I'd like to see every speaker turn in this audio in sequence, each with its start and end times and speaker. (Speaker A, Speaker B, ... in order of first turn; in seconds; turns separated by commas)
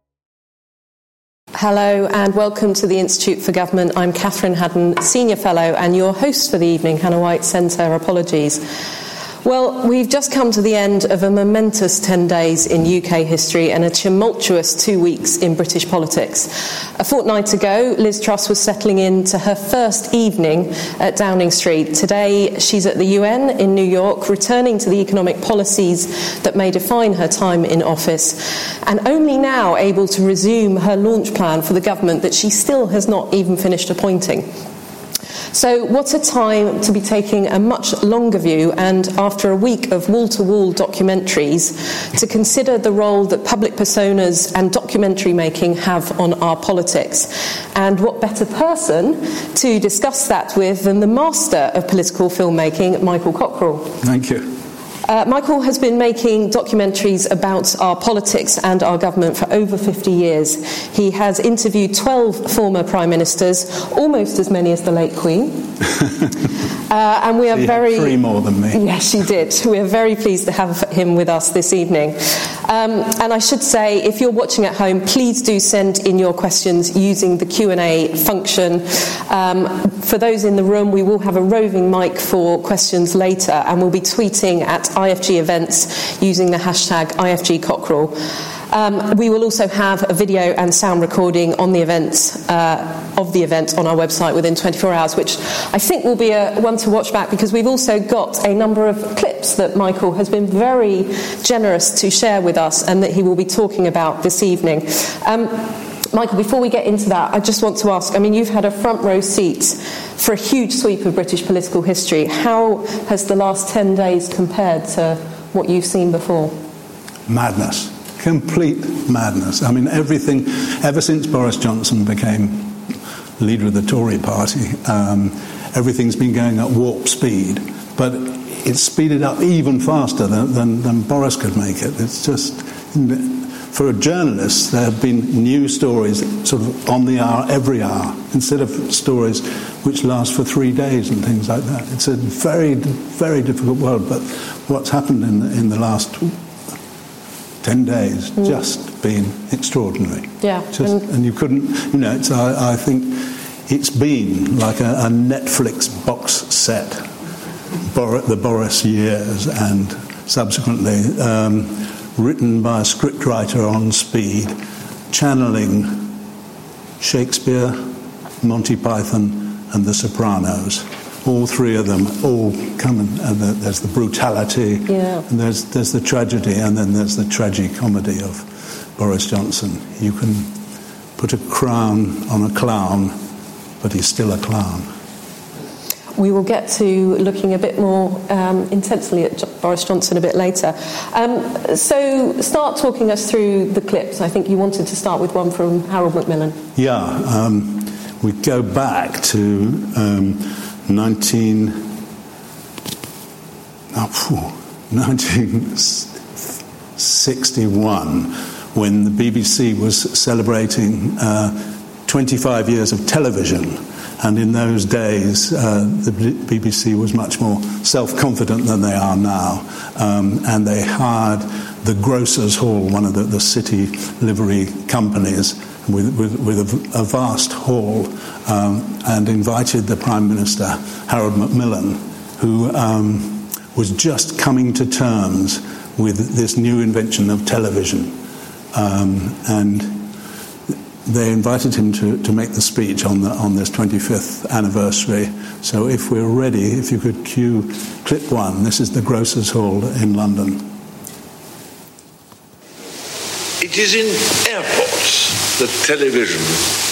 Speaker A: 1.6-8.6, Speaker A: 9.4-34.5, Speaker A: 35.5-54.0, Speaker B: 54.0-54.5, Speaker A: 55.0-65.7, Speaker A: 66.9-68.2, Speaker B: 67.5-68.9, Speaker A: 68.7-88.2, Speaker A: 88.7-116.6, Speaker B: 117.3-146.4, Speaker B: 147.6-157.1, Speaker A: 150.4-151.0, Speaker B: 157.9-164.6, Speaker B: 165.1-166.2, Speaker B: 167.0-180.6, Speaker A: 174.9-175.2, Speaker B: 181.2-183.2, Speaker B: 183.8-184.9, Speaker A: 186.2-196.6, Speaker B: 196.8-202.0, Speaker B: 203.9-238.2, Speaker B: 238.7-240.1, Speaker B: 240.7-250.8, Speaker C: 253.6-256.6